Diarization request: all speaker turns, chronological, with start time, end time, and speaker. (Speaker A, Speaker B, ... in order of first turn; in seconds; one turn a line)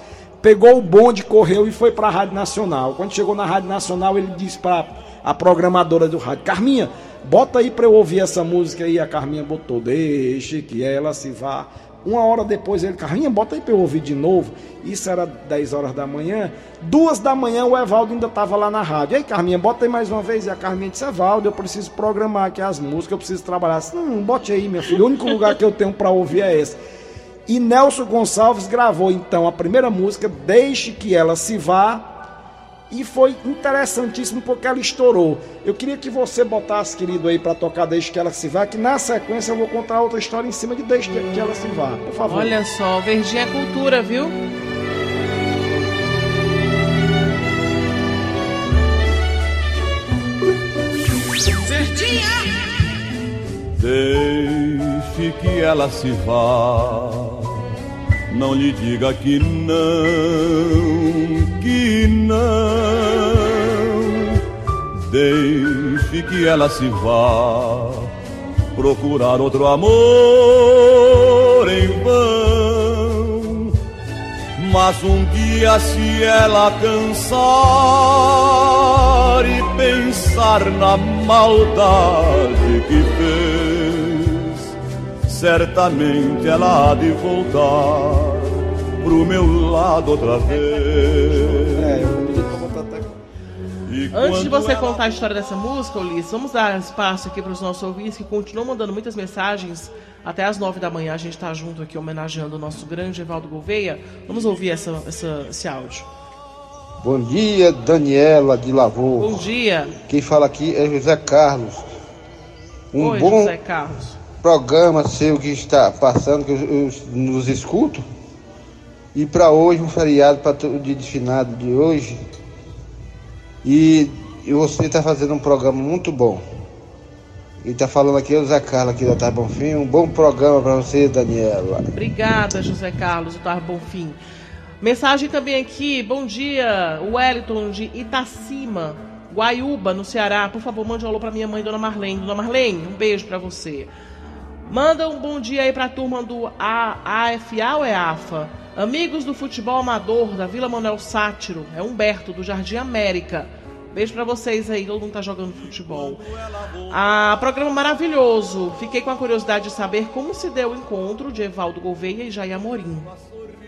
Speaker A: 0.4-26.8
Speaker A: 27.4-32.3
Speaker A: 32.9-42.5
Speaker B: 42.3-44.3
Speaker C: 53.8-57.6
Speaker C: 58.3-64.4
Speaker C: 64.9-68.1
Speaker C: 68.7-73.7
Speaker C: 74.6-84.7
Speaker C: 85.2-92.0
Speaker A: 91.5-93.1
Speaker C: 93.9-95.0
Speaker B: 94.1-106.1
Speaker D: 107.0-109.5
Speaker B: 109.2-109.9
Speaker D: 110.1-111.8
Speaker D: 112.9-113.5
Speaker B: 113.0-114.2
Speaker D: 114.4-118.0
Speaker D: 119.1-122.2
Speaker D: 123.6-126.4
Speaker D: 127.6-131.8
Speaker B: 131.9-134.2
Speaker B: 134.8-143.9
Speaker B: 144.7-156.2
Speaker B: 156.9-163.1